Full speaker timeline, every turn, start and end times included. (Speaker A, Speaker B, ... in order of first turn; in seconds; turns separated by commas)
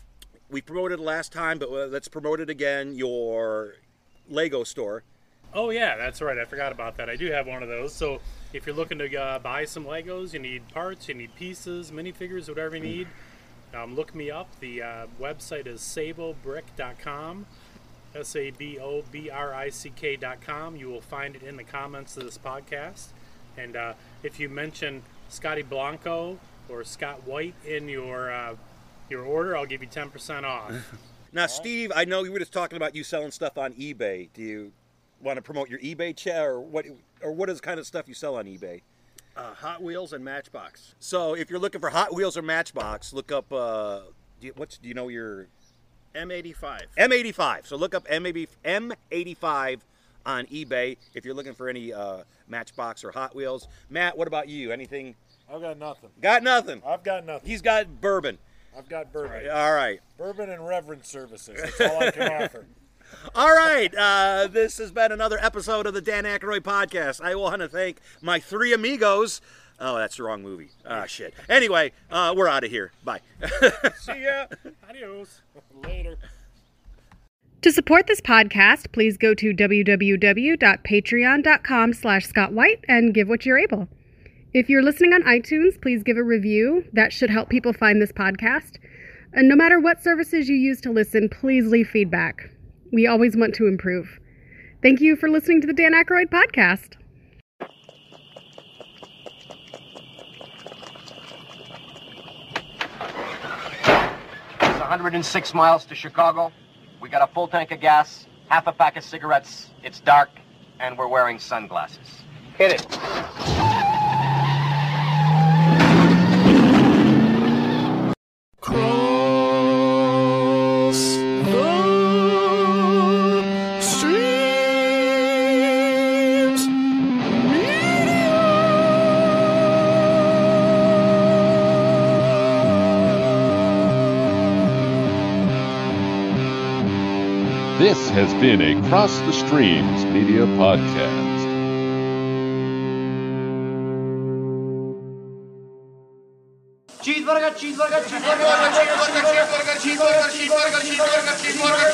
Speaker A: 0.5-5.0, Speaker B: 5.5-13.1, Speaker B: 13.7-17.5, Speaker B: 18.1-30.8, Speaker A: 31.3-38.8, Speaker C: 39.3-40.9, Speaker A: 41.0-45.5, Speaker C: 46.1-47.0, Speaker A: 47.0-55.2, Speaker D: 55.5-56.2, Speaker A: 56.2-56.8, Speaker D: 56.8-57.6, Speaker A: 57.4-58.4, Speaker D: 58.7-59.6, Speaker A: 59.2-60.0, Speaker D: 60.1-62.7, Speaker A: 61.6-62.6, Speaker A: 63.2-74.2, Speaker B: 74.1-75.4, Speaker D: 75.7-76.2, Speaker E: 77.6-83.9, Speaker E: 84.5-88.8, Speaker E: 89.3-94.2, Speaker E: 94.8-97.0, Speaker F: 104.6-112.2, Speaker G: 137.8-141.5